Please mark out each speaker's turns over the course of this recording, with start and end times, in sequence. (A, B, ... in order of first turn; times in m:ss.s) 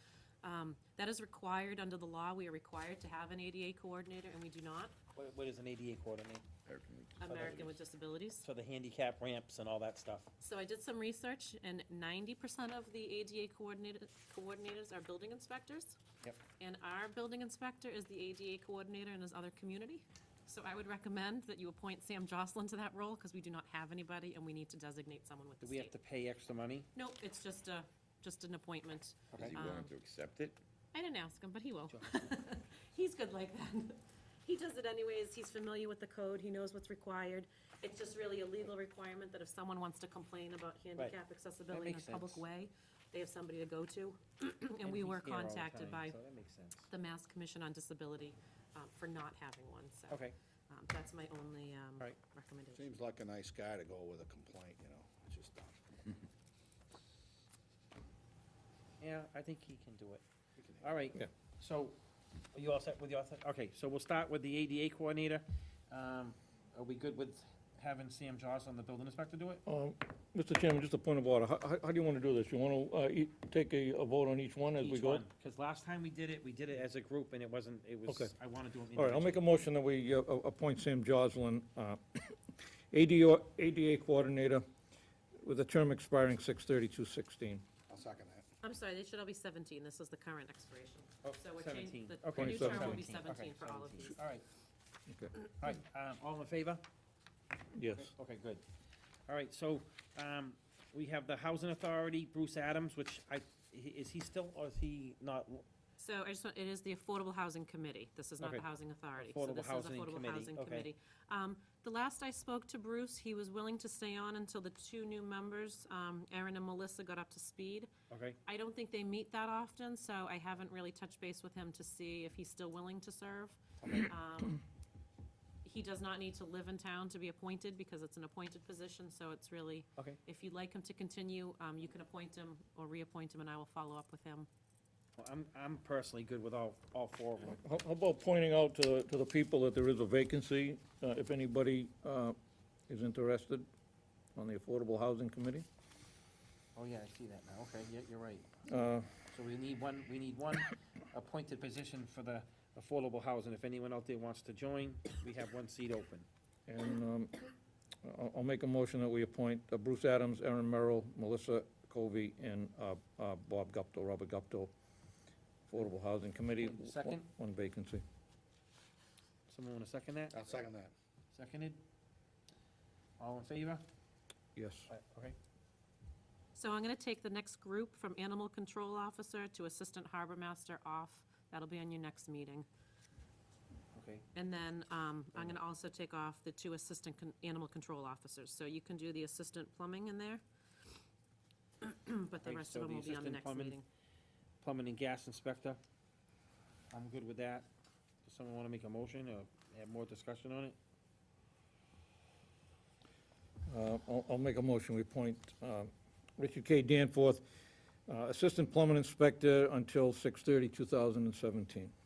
0:00.4-0:04.9 A
0:05.2-0:06.5 B
0:06.6-0:07.7 C
0:07.2-0:08.4 A
0:07.2-0:07.8 B
0:08.4-0:10.3 B
0:10.4-0:16.0 A
0:16.6-0:25.9 A
0:25.6-0:26.9 B
0:26.9-0:29.9 A
0:29.4-0:30.6 C
0:30.9-0:46.2 A
0:31.9-0:32.4 B
0:41.7-0:42.4 B
0:44.8-0:46.9 B
0:46.9-0:52.9 A
0:52.7-0:56.2 D
0:59.0-1:00.2 B
1:00.6-1:01.0 D
1:00.8-1:02.0 B
1:02.5-1:09.6 B
1:09.6-1:15.2 E
1:14.8-1:19.6 B
1:18.1-1:18.3 E
1:19.0-1:24.6 E
1:25.4-1:27.6 E
1:27.9-1:28.4 D
1:28.6-1:34.2 A
1:31.2-1:34.4 B
1:32.4-1:33.0 E
1:35.1-1:35.3 E
1:35.6-1:36.8 B
1:37.7-1:38.1 E
1:37.9-1:38.6 B
1:39.3-1:45.6 B
1:46.0-1:57.9 A
1:48.4-1:48.6 B
1:49.2-1:50.9 B
1:58.1-1:58.4 B
1:58.4-2:04.6 A
2:03.8-2:04.1 B
2:05.6-2:14.5 A
2:15.2-2:17.6 B
2:17.5-2:22.3 E
2:22.9-2:23.7 E
2:24.4-2:25.6 E
2:26.8-2:28.5 B
2:28.7-2:29.1 E
2:29.3-2:36.2 B
2:36.7-2:37.5 E
2:38.0-2:44.7 E
2:45.7-2:48.0 E
2:46.6-2:47.2 B
2:49.5-2:50.4 B
2:50.3-2:50.9 D
2:51.3-2:51.8 B
2:53.2-2:53.8 B
2:54.5-2:54.9 E
2:54.9-2:55.4 B
2:56.5-3:02.6 A
3:03.9-3:04.2 B
3:04.3-3:10.4 A
3:11.8-3:13.8 A
3:12.4-3:13.8 B
3:14.6-3:15.8 B
3:16.9-3:17.7 B
3:18.2-3:20.8 B
3:23.7-3:27.4 E
3:28.1-3:31.9 E